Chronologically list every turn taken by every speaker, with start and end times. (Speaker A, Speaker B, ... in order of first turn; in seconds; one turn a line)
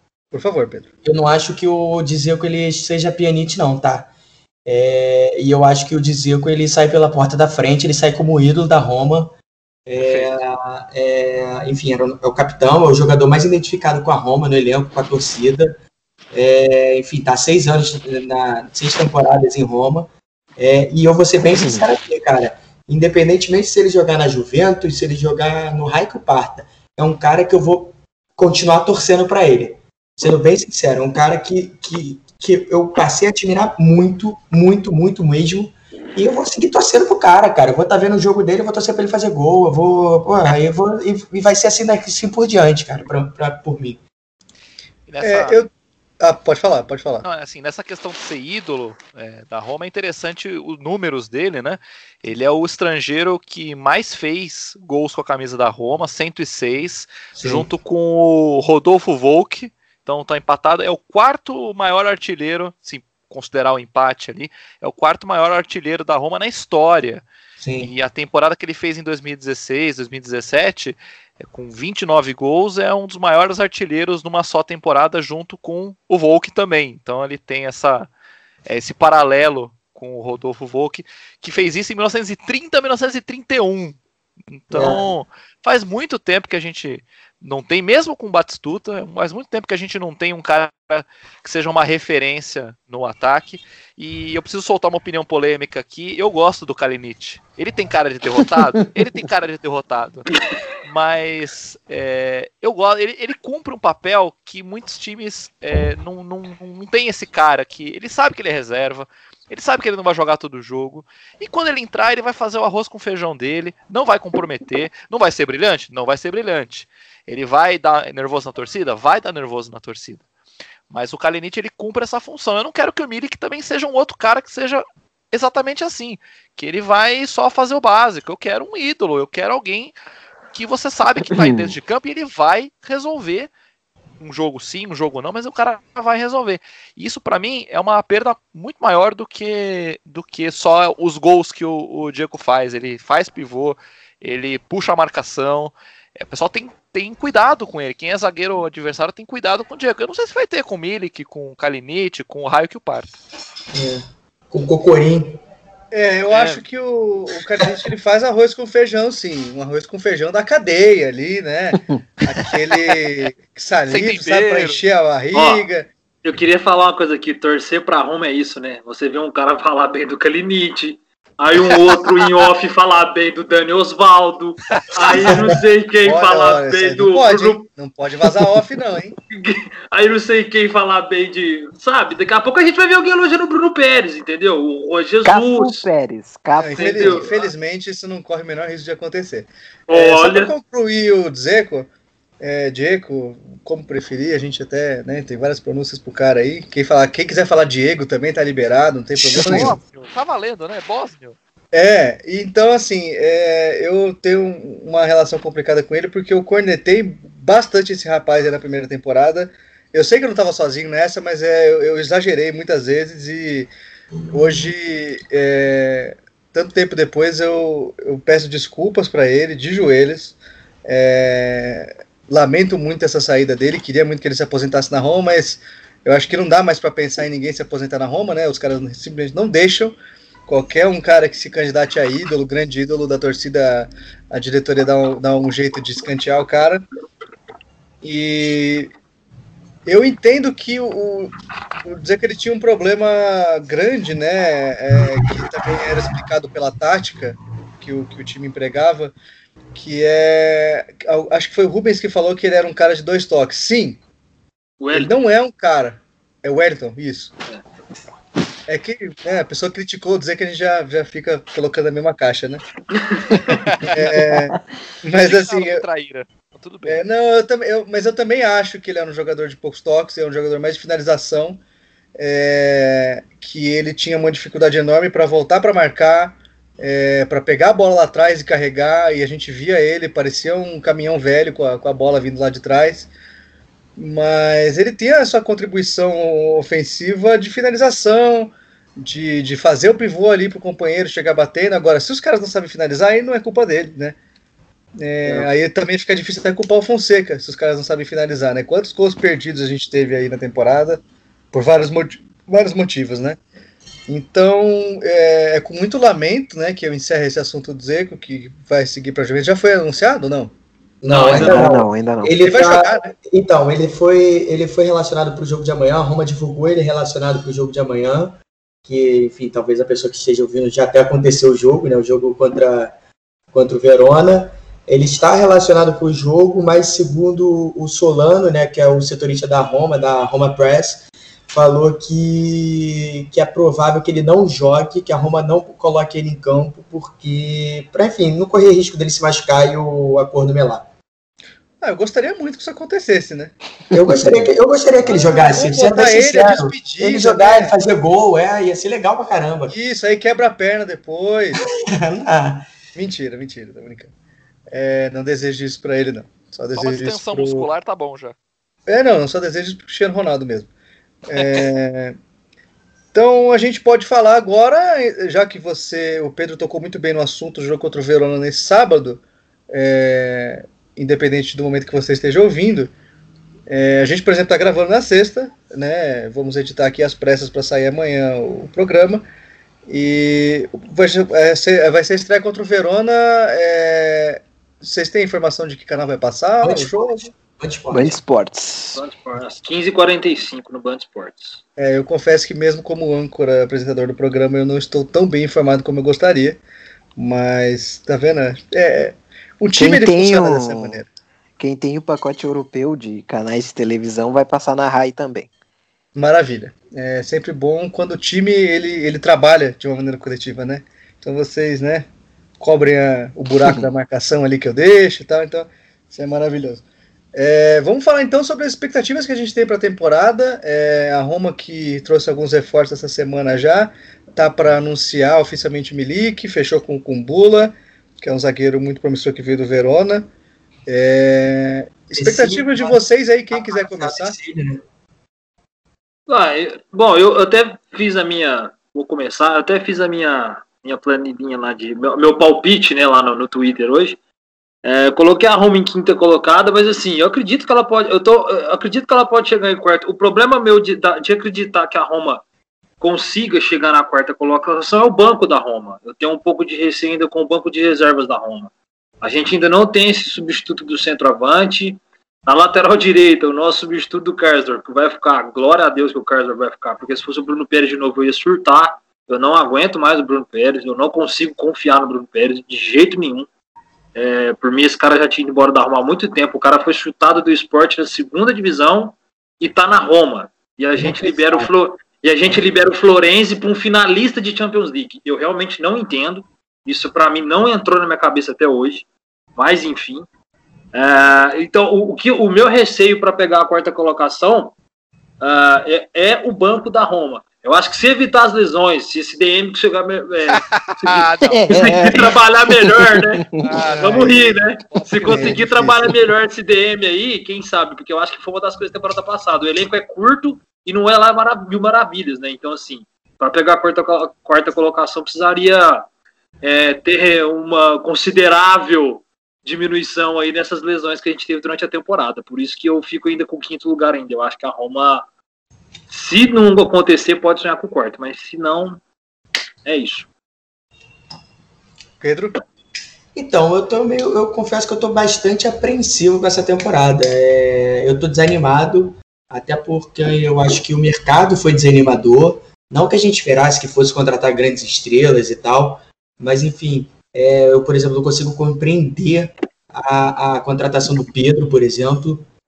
Speaker A: 0.3-0.9
Speaker B: 1.0-4.1
Speaker B: 4.7-9.3
Speaker B: 9.9-15.7
Speaker C: 10.0-10.3
Speaker B: 16.3-44.0
Speaker D: 21.6-21.9
Speaker C: 45.1-45.6
Speaker A: 45.2-47.2
Speaker C: 47.2-67.2
Speaker B: 57.4-57.7
Speaker B: 67.6-67.9
Speaker C: 67.8-78.1
Speaker C: 78.7-84.0
Speaker C: 84.5-100.3
Speaker B: 84.7-85.1
Speaker C: 100.8-120.2
Speaker C: 120.9-129.9
Speaker C: 130.5-133.5
Speaker C: 134.2-153.1
Speaker B: 153.7-155.4
Speaker A: 155.9-165.9
Speaker C: 156.3-156.6
Speaker C: 163.9-164.8
Speaker E: 165.3-165.7
Speaker E: 166.2-177.7
Speaker C: 171.6-172.4
Speaker B: 175.1-175.6
Speaker A: 176.0-179.2
Speaker E: 179.3-185.9
Speaker D: 185.2-187.2
Speaker A: 186.6-191.9
Speaker E: 186.7-187.5
Speaker E: 189.9-190.5
Speaker A: 192.4-199.8
Speaker C: 199.3-201.4
Speaker B: 199.4-199.7
Speaker A: 201.7-213.7
Speaker A: 214.3-229.9
Speaker A: 230.5-236.8
Speaker A: 238.0-238.9
Speaker A: 239.8-241.3
Speaker A: 241.8-249.1
Speaker A: 249.7-254.0
Speaker E: 254.8-255.1
Speaker A: 254.9-257.3
Speaker A: 258.7-262.6
Speaker E: 262.9-263.4
Speaker C: 263.5-264.2
Speaker A: 263.8-265.8
Speaker C: 265.1-267.0
Speaker A: 266.9-271.6
Speaker A: 272.1-283.1
Speaker A: 283.9-294.2
Speaker A: 295.0-301.0
Speaker A: 301.5-303.4
Speaker A: 304.1-310.5
Speaker B: 311.0-322.9
Speaker E: 311.1-311.7
Speaker D: 311.3-312.3
Speaker A: 312.4-313.1
Speaker B: 323.5-340.9
Speaker A: 341.8-343.5
Speaker D: 343.9-344.5
Speaker B: 343.9-349.7
Speaker A: 345.0-347.7
Speaker A: 349.7-351.6
Speaker B: 352.0-352.7
Speaker A: 352.9-354.1
Speaker A: 354.7-357.7
Speaker C: 356.8-358.4
Speaker A: 358.9-360.7
Speaker A: 361.2-362.2
Speaker C: 361.4-361.6
Speaker A: 363.1-372.9
Speaker A: 373.7-379.2
Speaker A: 379.9-387.3
Speaker B: 386.6-388.2
Speaker D: 387.9-389.0
Speaker E: 388.9-391.6
Speaker A: 391.8-396.6
Speaker A: 397.1-401.1
Speaker D: 399.8-401.0
Speaker D: 401.6-405.5
Speaker A: 406.1-412.1
Speaker A: 412.6-416.8
Speaker A: 417.3-430.3
Speaker A: 430.9-434.3
Speaker B: 432.1-434.8
Speaker E: 436.3-444.2
Speaker E: 444.8-452.4
Speaker E: 453.0-473.5
Speaker E: 474.1-490.2
Speaker B: 480.9-481.7
Speaker E: 490.9-494.7
Speaker E: 495.4-516.0
Speaker C: 500.5-502.3
Speaker D: 501.5-503.6
Speaker C: 503.6-505.6
Speaker A: 504.0-504.4
Speaker A: 505.2-506.2
Speaker E: 516.6-525.2
Speaker E: 526.1-529.0
Speaker E: 529.8-530.3
Speaker A: 532.2-532.6
Speaker B: 533.3-552.5